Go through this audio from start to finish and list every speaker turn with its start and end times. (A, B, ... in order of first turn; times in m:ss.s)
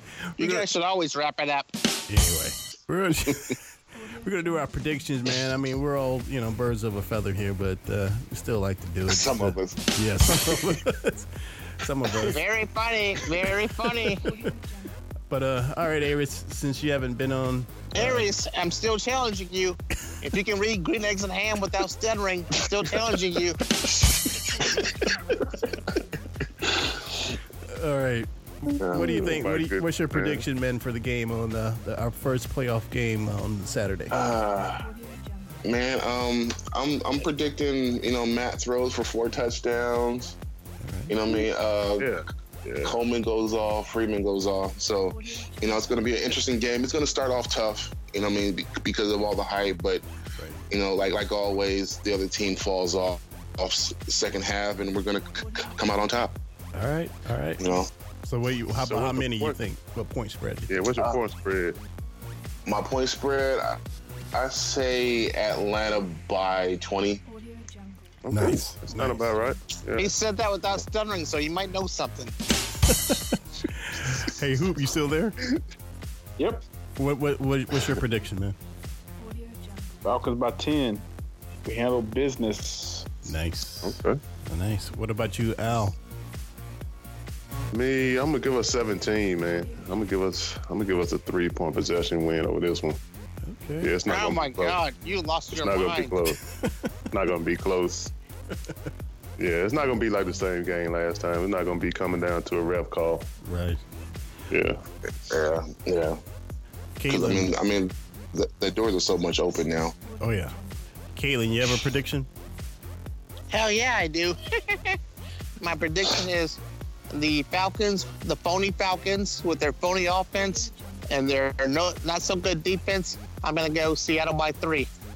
0:00.4-0:00.7 A
0:00.4-0:01.7 B
0:02.1-0:03.6 A
0:04.2-0:12.4 A
0:09.1-0:09.8 C
0:12.2-0:14.3 B
0:14.1-0:14.4 A
0:15.3-0:18.3 A
0:17.9-0:23.6 B
0:24.6-0:25.0 C
0:27.7-0:34.2 A
0:28.8-0:29.4 C
0:29.1-0:30.4 D
0:34.1-0:34.9 C
0:35.6-0:40.4 C
0:40.8-0:41.1 A
0:41.1-0:42.1 C
0:42.0-0:43.0 D
0:42.8-0:50.0 C
0:50.7-0:56.3 C
0:56.7-0:57.7 A
0:57.6-0:57.9 C
0:58.2-1:00.8 A
0:58.8-0:59.6 D
1:00.7-1:01.8 D
1:02.7-1:03.8 C
1:04.3-1:07.2 C
1:08.2-1:10.1 D
1:08.3-1:09.4 A
1:10.0-1:12.4 B
1:12.9-1:15.4 A
1:16.4-1:16.6 E
1:17.0-1:18.6 A
1:20.0-1:21.0 E
1:21.6-1:23.1 E
1:23.2-1:26.0 A
1:23.8-1:24.2 D
1:27.7-1:33.0 D
1:33.4-1:34.0 A
1:33.8-1:34.8 D
1:34.1-1:36.2 B
1:35.5-1:36.4 D
1:36.6-1:36.9 A
1:37.1-1:38.1 D
1:39.4-1:43.3 D
1:43.4-1:43.8 A
1:44.5-1:44.8 D
1:45.3-1:46.2 C
1:47.0-1:47.5 A
1:47.1-1:49.9 C
1:50.2-1:50.6 A
1:51.2-1:52.3 A
1:53.5-1:55.0 B
1:55.6-1:56.6 B
1:57.1-2:04.9 B